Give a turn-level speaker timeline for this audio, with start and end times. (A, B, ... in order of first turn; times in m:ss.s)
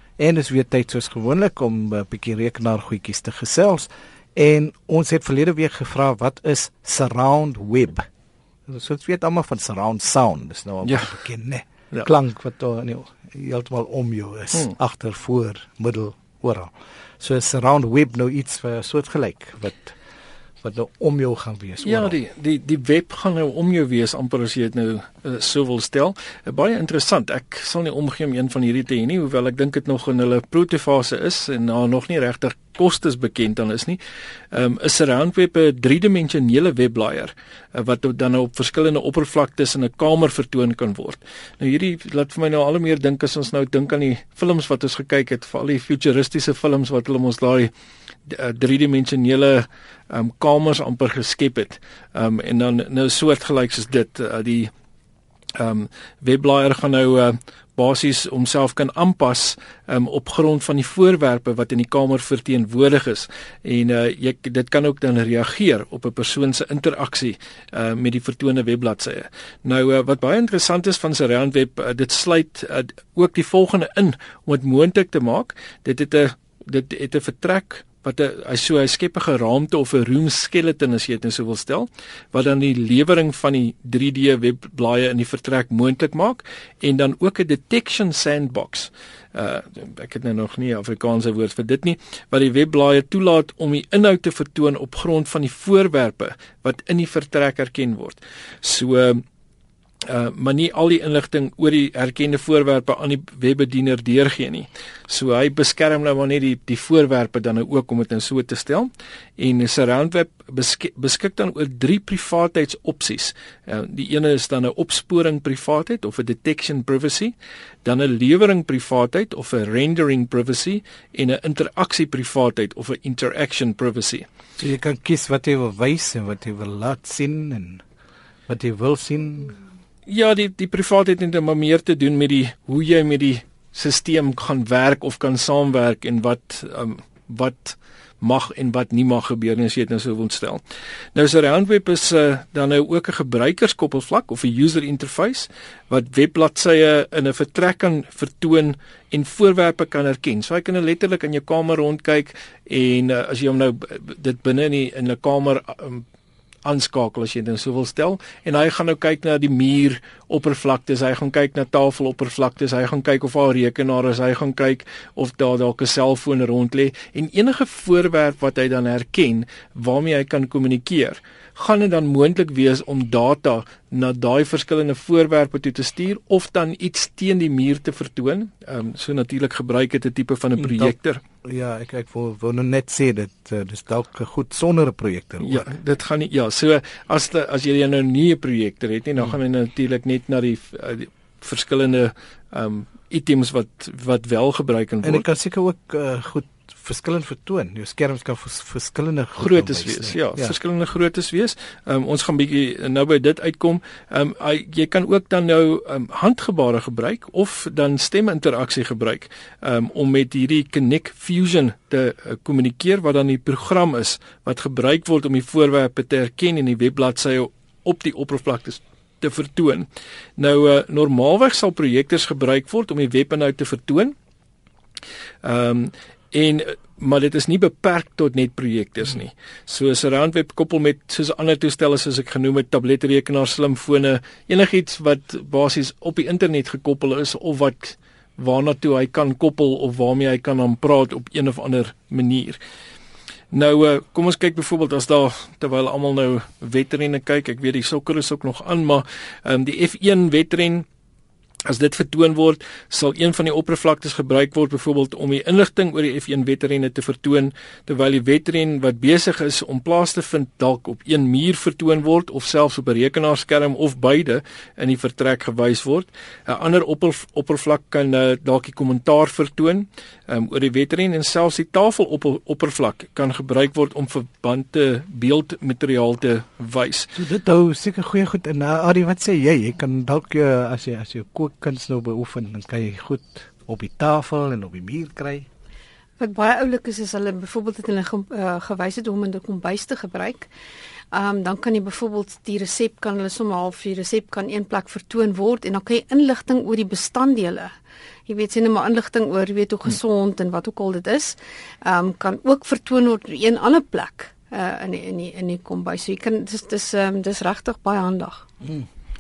0:00.2-0:08.1 A
0:08.7-0:20.0 A
0:10.8-0:11.2 B
0:20.6-0:22.2 A
0:21.8-0:34.0 B
0:34.5-0:47.7 B
0:48.3-0:54.7 B
0:55.6-1:39.2 B
1:40.0-1:57.3 B
1:57.8-2:04.3 B
2:04.6-2:07.8 A
2:08.5-2:09.6 A
2:10.1-2:20.6 B
2:21.1-2:36.0 B
2:36.6-3:01.2 B
3:00.6-3:00.9 A
3:01.4-3:05.7 A
3:05.4-3:15.2 B
3:15.0-3:20.5 A
3:19.4-3:39.9 B
3:40.4-3:44.1 B
3:45.4-4:02.6 B
4:03.5-4:10.8 B
4:11.7-4:37.1 B
4:37.1-4:45.5 A
4:46.2-4:50.5 C
4:51.1-4:57.7 C
4:58.3-5:08.5 C